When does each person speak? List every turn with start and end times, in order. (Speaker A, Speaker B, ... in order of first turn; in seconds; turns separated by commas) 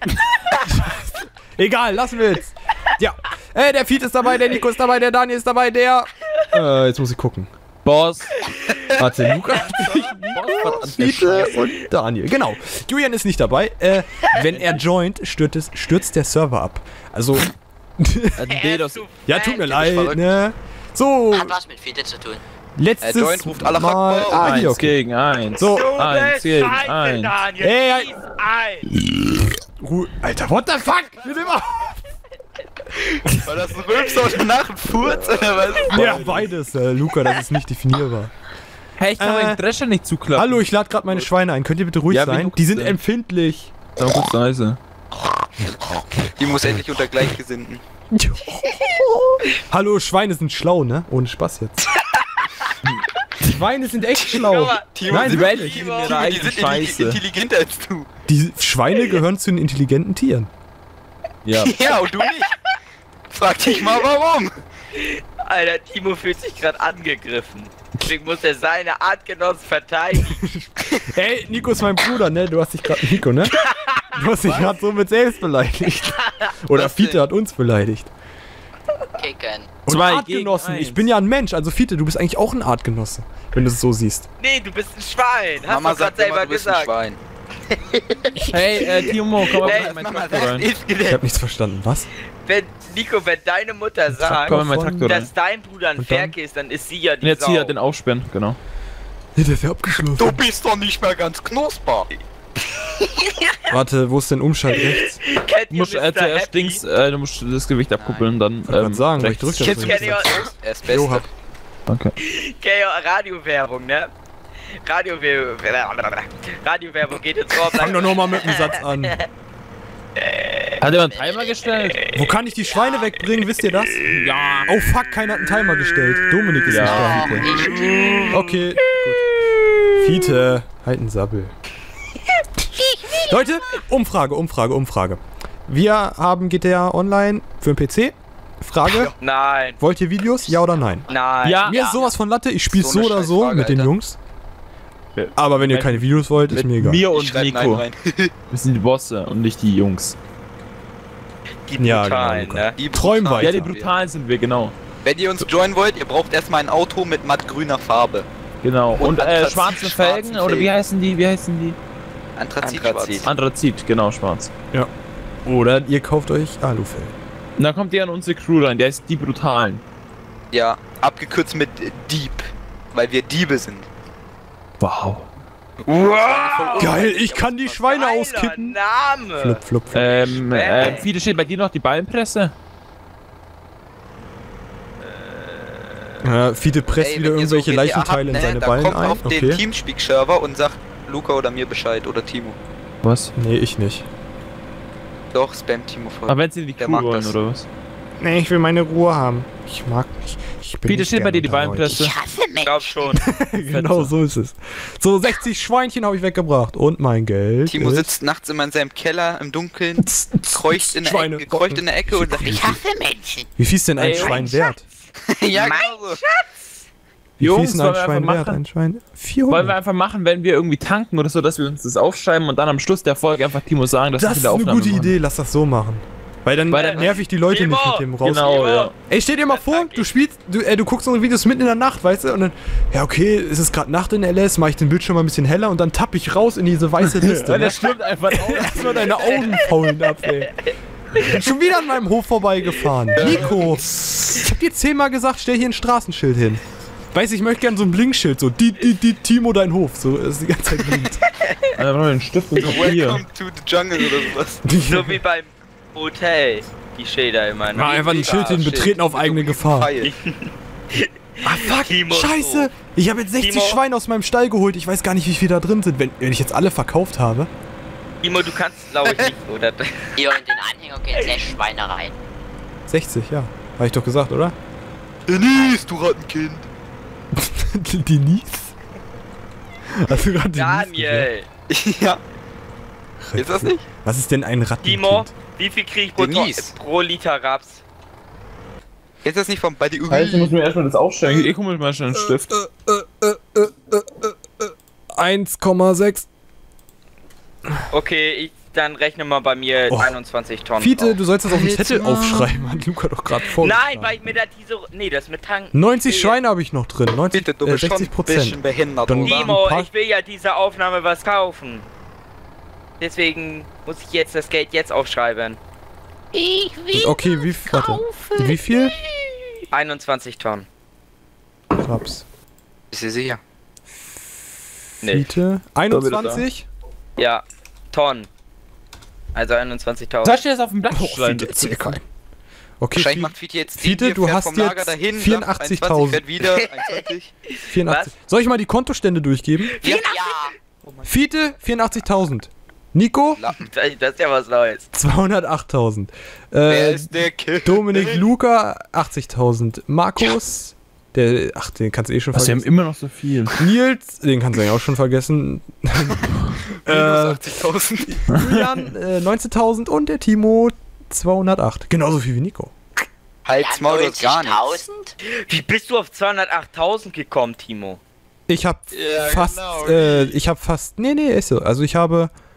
Speaker A: 0.4-7.5, Speaker B: 7.8-8.4, Speaker C: 8.5-8.8, Speaker A: 8.9-18.4, Speaker B: 9.9-11.6, Speaker B: 18.4-19.0, Speaker C: 18.5-19.7, Speaker A: 19.2-21.6, Speaker D: 19.6-20.4, Speaker E: 21.3-22.4, Speaker A: 22.8-25.0, Speaker D: 23.0-24.6, Speaker B: 24.3-27.4, Speaker A: 25.6-26.0, Speaker C: 25.6-28.9, Speaker A: 27.6-28.2, Speaker A: 29.6-32.0, Speaker D: 33.3-36.2, Speaker B: 35.8-36.5, Speaker A: 35.9-38.3, Speaker B: 39.0-40.6, Speaker A: 39.2-39.6, Speaker A: 40.3-43.7, Speaker B: 42.1-43.0, Speaker B: 44.0-44.8, Speaker D: 46.4-47.8, Speaker A: 48.1-51.8, Speaker A: 53.4-55.8, Speaker D: 54.2-58.1, Speaker C: 54.4-54.9, Speaker B: 55.1-57.2, Speaker C: 55.5-56.4, Speaker A: 58.3-60.5, Speaker B: 61.4-61.8, Speaker D: 61.6-62.5, Speaker D: 63.3-64.6, Speaker C: 65.0-70.3, Speaker A: 70.1-73.5, Speaker C: 73.5-74.7, Speaker A: 74.1-78.1, Speaker C: 76.2-76.5, Speaker D: 76.7-77.2, Speaker E: 79.2-79.7, Speaker A: 79.8-84.3, Speaker B: 79.9-81.1, Speaker C: 84.4-86.9, Speaker D: 85.7-87.2, Speaker C: 88.1-89.0, Speaker B: 88.4-90.7, Speaker D: 89.5-91.2, Speaker C: 89.6-89.9, Speaker A: 91.1-92.1, Speaker C: 92.4-97.7, Speaker A: 94.1-95.1, Speaker B: 94.4-95.3, Speaker A: 96.0-96.3, Speaker B: 97.2-98.6, Speaker A: 99.3-100.4, Speaker D: 100.2-102.1, Speaker C: 102.8-103.6, Speaker A: 103.7-105.2, Speaker C: 104.7-106.8, Speaker B: 105.7-109.9, Speaker D: 108.0-108.3, Speaker A: 108.7-111.3, Speaker C: 109.5-110.5, Speaker D: 109.7-111.3, Speaker B: 111.9-112.1, Speaker C: 112.2-114.1, Speaker C: 114.8-119.3, Speaker A: 117.7-119.2, Speaker C: 120.2-120.7, Speaker B: 120.8-122.0, Speaker E: 120.8-121.8, Speaker A: 122.1-124.0, Speaker E: 122.7-122.9, Speaker B: 124.0-124.9, Speaker A: 124.7-127.7, Speaker B: 126.7-127.3, Speaker E: 126.8-128.2, Speaker C: 127.5-128.6, Speaker A: 128.3-129.2, Speaker A: 130.0-131.5, Speaker C: 132.8-133.3, Speaker A: 133.1-139.1, Speaker D: 138.9-139.1, Speaker C: 139.2-139.8, Speaker A: 139.8-141.1, Speaker C: 141.1-142.0, Speaker B: 141.4-141.8, Speaker A: 141.6-144.2, Speaker D: 142.7-143.9, Speaker B: 145.1-147.8, Speaker A: 145.3-147.1, Speaker D: 147.1-148.3, Speaker B: 148.5-150.2, Speaker C: 151.7-152.8, Speaker A: 151.8-153.7, Speaker D: 152.7-153.9, Speaker B: 153.4-154.7, Speaker D: 155.0-158.3, Speaker B: 158.6-161.8, Speaker D: 159.0-160.7, Speaker D: 162.3-163.3, Speaker C: 162.6-163.3, Speaker B: 163.2-164.5, Speaker A: 165.4-167.2, Speaker B: 167.6-169.8, Speaker D: 170.5-173.9, Speaker B: 174.8-175.3, Speaker C: 175.9-181.1, Speaker D: 176.0-177.3, Speaker A: 176.7-178.8, Speaker A: 179.4-180.3, Speaker B: 179.9-182.5, Speaker C: 185.0-186.1, Speaker A: 186.2-189.6, Speaker D: 187.0-192.6, Speaker B: 193.0-193.3, Speaker A: 193.3-194.1, Speaker D: 195.3-197.3, Speaker B: 196.3-197.7, Speaker A: 198.2-202.1, Speaker B: 200.8-202.1, Speaker D: 201.9-202.9, Speaker C: 202.6-203.2, Speaker A: 203.1-208.1, Speaker B: 203.6-204.1, Speaker D: 207.7-212.7, Speaker A: 210.0-212.8, Speaker E: 212.5-213.5, Speaker A: 213.6-214.8, Speaker B: 214.0-214.4, Speaker D: 215.3-216.2, Speaker C: 215.5-216.5, Speaker B: 217.4-218.6, Speaker A: 217.4-219.8, Speaker B: 219.5-225.1, Speaker A: 224.2-228.5, Speaker B: 226.7-227.1, Speaker C: 226.7-228.9, Speaker B: 228.2-228.9, Speaker A: 229.1-246.6, Speaker C: 229.5-230.1, Speaker B: 237.0-239.5, Speaker C: 239.2-239.7, Speaker D: 243.1-244.4, Speaker A: 247.1-251.2, Speaker B: 251.7-253.2, Speaker C: 252.6-253.0, Speaker D: 252.6-254.6, Speaker A: 254.6-255.2, Speaker C: 254.7-258.0, Speaker A: 257.7-259.9, Speaker D: 257.9-260.1, Speaker C: 260.0-262.7, Speaker A: 261.4-267.5, Speaker C: 263.4-263.8, Speaker C: 268.2-270.3, Speaker D: 269.0-269.3, Speaker E: 270.1-272.1, Speaker A: 272.9-274.5, Speaker D: 275.3-276.6, Speaker A: 277.3-278.7, Speaker A: 279.9-281.3, Speaker C: 280.5-281.5, Speaker D: 281.7-282.2, Speaker A: 283.2-285.3, Speaker D: 283.4-283.8, Speaker C: 284.8-287.8, Speaker D: 286.2-286.7, Speaker D: 289.2-290.6, Speaker B: 290.1-292.5, Speaker A: 292.1-296.3, Speaker C: 297.9-301.2, Speaker A: 299.9-300.1, Speaker A: 300.8-304.2, Speaker D: 301.5-302.8, Speaker C: 303.4-306.4, Speaker A: 305.7-309.9, Speaker D: 307.3-309.5, Speaker C: 309.1-311.9, Speaker C: 313.0-315.6, Speaker E: 316.3-319.3, Speaker A: 316.9-318.9, Speaker C: 319.7-320.7, Speaker A: 321.7-322.2, Speaker D: 322.9-323.4, Speaker C: 325.0-325.3, Speaker A: 325.0-326.7, Speaker B: 325.9-326.4, Speaker C: 327.2-328.3, Speaker C: 329.3-330.4, Speaker B: 330.2-331.9, Speaker A: 330.9-332.0, Speaker A: 332.8-336.3, Speaker D: 332.9-337.3, Speaker A: 337.6-339.8, Speaker C: 337.8-338.1, Speaker C: 339.6-340.5, Speaker E: 339.9-340.5, Speaker A: 341.0-343.4, Speaker D: 343.3-343.7, Speaker C: 343.6-344.9, Speaker A: 344.9-352.7, Speaker D: 346.6-348.2, Speaker B: 352.3-353.6, Speaker A: 353.6-357.4, Speaker D: 356.9-358.3, Speaker A: 358.1-362.7, Speaker D: 363.4-364.8, Speaker E: 363.5-365.1, Speaker C: 365.2-368.0, Speaker A: 368.5-372.3, Speaker D: 368.9-370.4